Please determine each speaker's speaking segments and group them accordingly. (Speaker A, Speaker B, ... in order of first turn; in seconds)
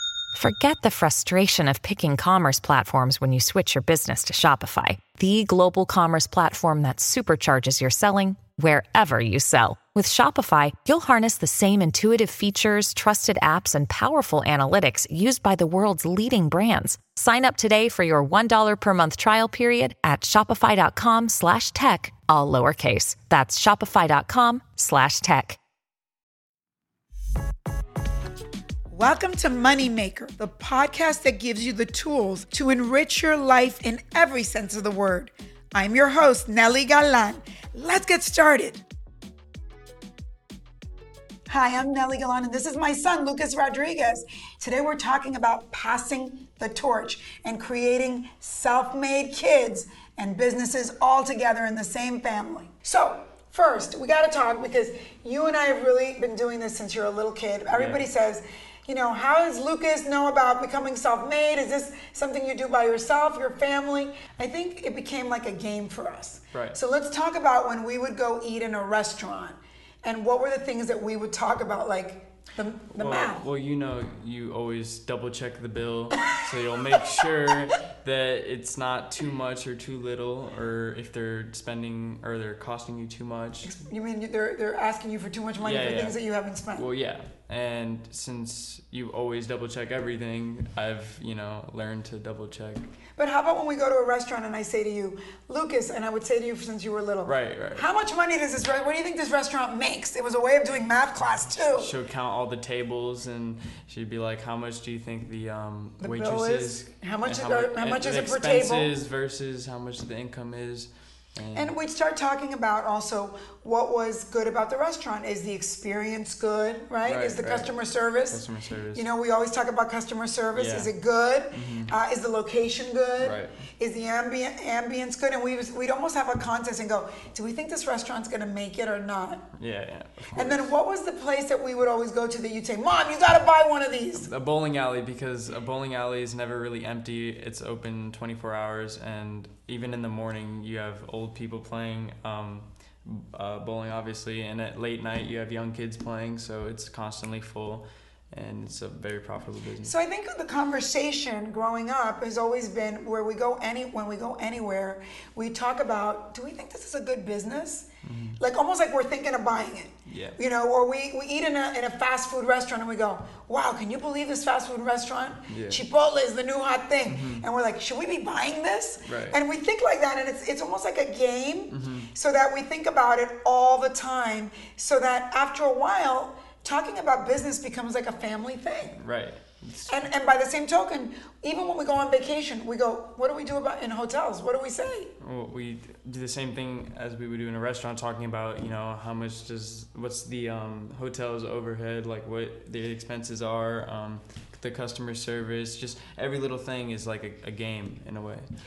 Speaker A: 0.3-25.6
Speaker B: 28.9-38.8, 41.5-73.4, 83.6-86.9, 93.2-101.9, 106.0-108.9, 111.5-129.5, 130.3-134.3, 149.8-157.9, 158.4-179.0, 179.8-185.1
Speaker C: 57.7-58.0, 66.5-66.8, 72.9-83.8, 85.6-86.2, 86.7-92.9, 97.2-97.8, 101.5-111.7, 117.0-117.7, 118.3-119.0, 120.5-120.9, 121.5-121.9, 123.2-123.6, 129.6-130.7, 134.1-149.9, 158.0-158.4, 160.1-160.4, 165.5-165.8, 167.1-167.4, 169.0-169.4, 171.7-172.1, 179.0-180.1, 185.2-198.5